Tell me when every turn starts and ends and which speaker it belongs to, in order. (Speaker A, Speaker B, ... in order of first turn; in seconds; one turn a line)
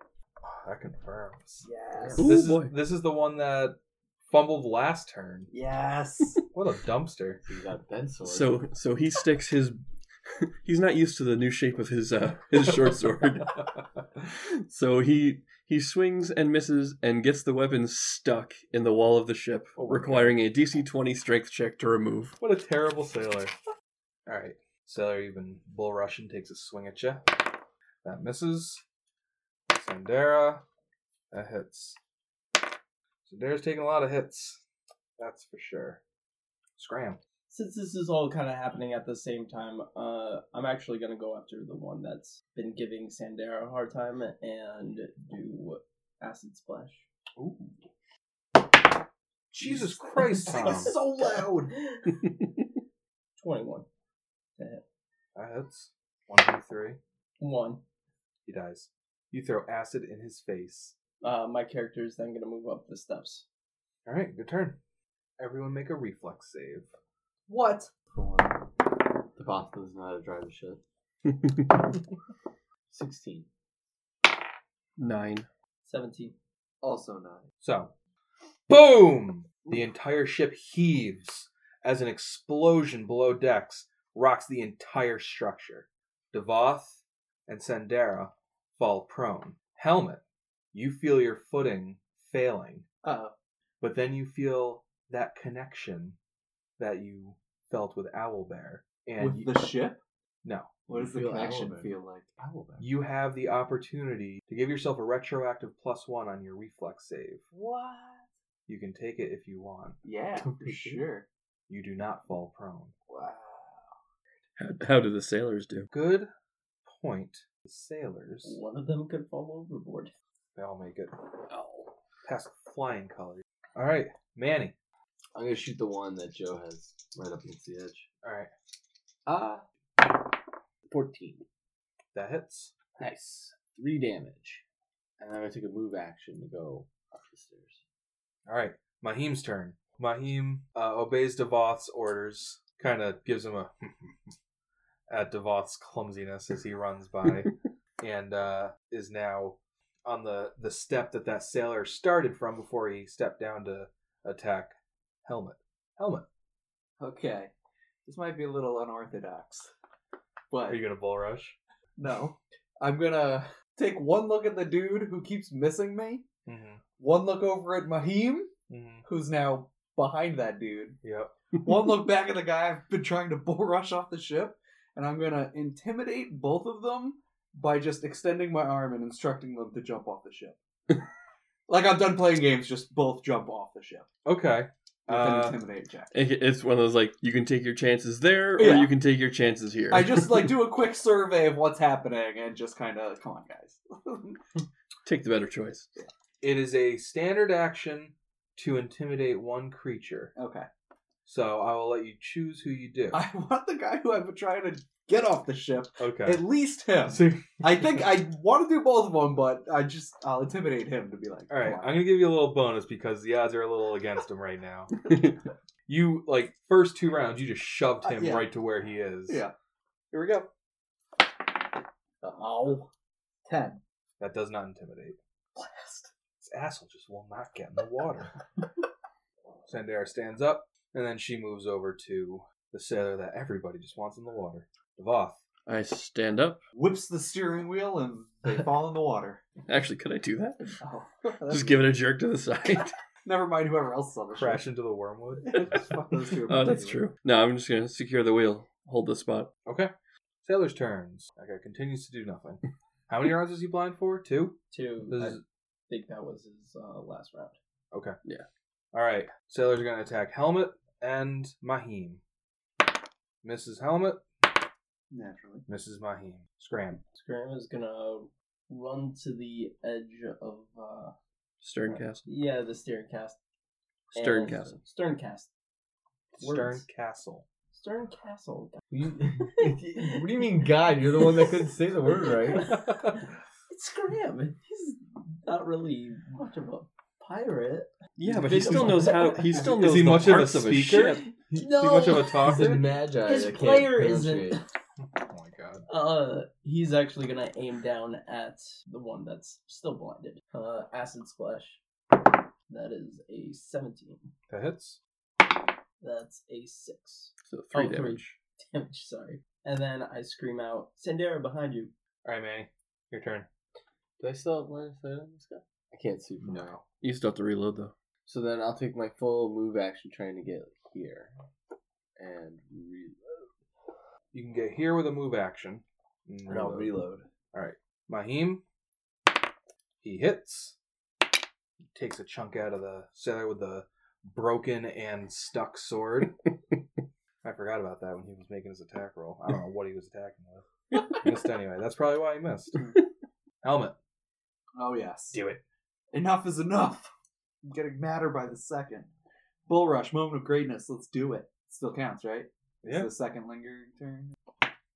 Speaker A: 0.4-1.6
Speaker B: 1.6-2.2
Speaker C: 1.9-2.2
Speaker D: 2.2-2.7
Speaker A: 2.2-5.5
Speaker B: 5.5-6.5
Speaker A: 6.5-7.4
Speaker C: 7.4-8.6
Speaker D: 8.2-13.7
Speaker D: 14.3-22.4
Speaker A: 19.8-20.4
Speaker A: 22.4-23.5
Speaker A: 24.2-27.4
Speaker A: 28.0-28.8
Speaker A: 29.7-30.6
Speaker A: 31.3-32.0
Speaker A: 33.2-34.6
Speaker A: 35.2-36.0
Speaker A: 36.8-37.2
Speaker E: 37.5-47.1
Speaker A: 47.4-47.7
Speaker A: 49.5-51.0
Speaker E: 49.7-52.2
Speaker B: 49.8-51.7
Speaker E: 53.4-53.9
Speaker E: 54.6-54.8
Speaker A: 55.3-57.0
Speaker E: 57.4-57.8
Speaker A: 58.5-61.0
Speaker E: 61.2-63.5
Speaker A: 64.0-64.8
Speaker A: 65.4-66.9
Speaker B: 67.5-68.6
Speaker C: 69.3-70.8
Speaker C: 72.9-73.5
Speaker D: 75.0-75.5
Speaker E: 75.8-76.3
Speaker B: 76.8-77.5
Speaker A: 77.6-77.9
Speaker A: 78.7-90.2
Speaker A: 90.7-92.8
Speaker B: 93.0-93.3
Speaker A: 93.8-96.2
Speaker A: 96.8-99.5
Speaker B: 99.2-100.0
Speaker A: 100.4-100.7
Speaker B: 100.9-102.3
Speaker C: 100.9-102.9
Speaker A: 102.8-107.4
Speaker B: 107.5-108.3
Speaker A: 108.7-110.0
Speaker B: 110.0-111.3
Speaker C: 110.4-111.0
Speaker A: 111.7-112.9
Speaker B: 113.1-114.0
Speaker D: 114.6-115.9
Speaker A: 115.9-116.3
Speaker A: 116.8-118.6
Speaker E: 118.4-120.1
Speaker A: 120.5-121.1
Speaker D: 121.5-121.9
Speaker A: 122.2-124.7
Speaker C: 125.3-128.1
Speaker A: 128.2-128.5
Speaker C: 129.2-129.6
Speaker C: 130.9-131.4
Speaker A: 132.1-132.8
Speaker C: 133.0-134.6
Speaker C: 135.2-137.8
Speaker A: 138.5-144.1
Speaker A: 145.1-156.2
Speaker B: 157.0-157.5
Speaker B: 158.1-159.7
Speaker B: 160.5-160.8
Speaker A: 160.7-161.6
Speaker B: 162.0-166.3
Speaker A: 166.4-166.8
Speaker B: 166.9-168.5
Speaker A: 168.7-169.0
Speaker B: 169.0-171.0
Speaker A: 171.0-171.3
Speaker B: 171.6-180.6
Speaker B: 181.7-184.1
Speaker A: 184.2-185.6
Speaker B: 185.1-186.1
Speaker D: 186.1-190.5
Speaker B: 188.6-188.9
Speaker B: 189.9-194.4
Speaker D: 195.0-195.9
Speaker A: 196.4-200.3
Speaker B: 200.3-200.7
Speaker A: 201.2-203.2
Speaker B: 203.1-212.0
Speaker A: 206.0-206.4
Speaker A: 207.1-207.6
Speaker A: 211.5-214.9
Speaker A: 215.9-219.4
Speaker B: 218.0-218.5
Speaker B: 219.3-219.5
Speaker B: 220.1-220.5
Speaker B: 222.2-222.9
Speaker B: 223.4-223.8
Speaker A: 224.2-225.2
Speaker B: 225.6-226.1
Speaker A: 226.4-228.3
Speaker A: 229.7-235.4
Speaker D: 235.7-236.6
Speaker B: 236.7-239.4
Speaker D: 239.7-240.8
Speaker B: 240.8-241.9
Speaker D: 241.5-242.9
Speaker B: 243.2-244.6
Speaker A: 244.3-245.7
Speaker B: 245.4-247.0
Speaker D: 246.3-249.5
Speaker A: 249.7-249.9
Speaker A: 250.4-255.4
Speaker E: 254.7-257.5
Speaker A: 257.9-258.2
Speaker A: 258.9-262.2
Speaker A: 263.4-264.2
Speaker B: 265.1-265.6
Speaker A: 265.7-267.0
Speaker E: 267.2-271.1
Speaker D: 271.6-272.2
Speaker E: 271.9-273.4
Speaker D: 274.1-274.8
Speaker E: 274.1-275.5
Speaker A: 276.4-277.4
Speaker E: 276.4-276.8
Speaker E: 277.7-278.8
Speaker C: 278.9-282.7
Speaker E: 279.4-283.2
Speaker A: 282.7-283.2
Speaker E: 283.7-289.8
Speaker D: 288.2-291.2
Speaker A: 289.6-292.9
Speaker E: 291.2-294.7
Speaker C: 291.5-294.6
Speaker A: 295.1-295.8
Speaker E: 295.9-301.8
Speaker E: 302.7-304.3
Speaker A: 304.5-305.0
Speaker E: 306.0-311.9
Speaker D: 307.5-308.4
Speaker A: 312.2-313.5
Speaker C: 314.2-316.7
Speaker A: 316.4-316.8
Speaker D: 317.0-317.9
Speaker C: 318.2-321.3
Speaker C: 322.2-323.5
Speaker A: 324.3-327.0
Speaker C: 326.5-327.2
Speaker A: 327.5-328.6
Speaker A: 330.0-330.8
Speaker A: 331.9-336.4
Speaker A: 337.4-342.8
Speaker A: 343.6-343.9
Speaker B: 344.8-345.4
Speaker A: 345.3-345.6
Speaker B: 346.1-347.1
Speaker B: 347.6-349.1
Speaker B: 349.7-354.3
Speaker A: 352.8-353.1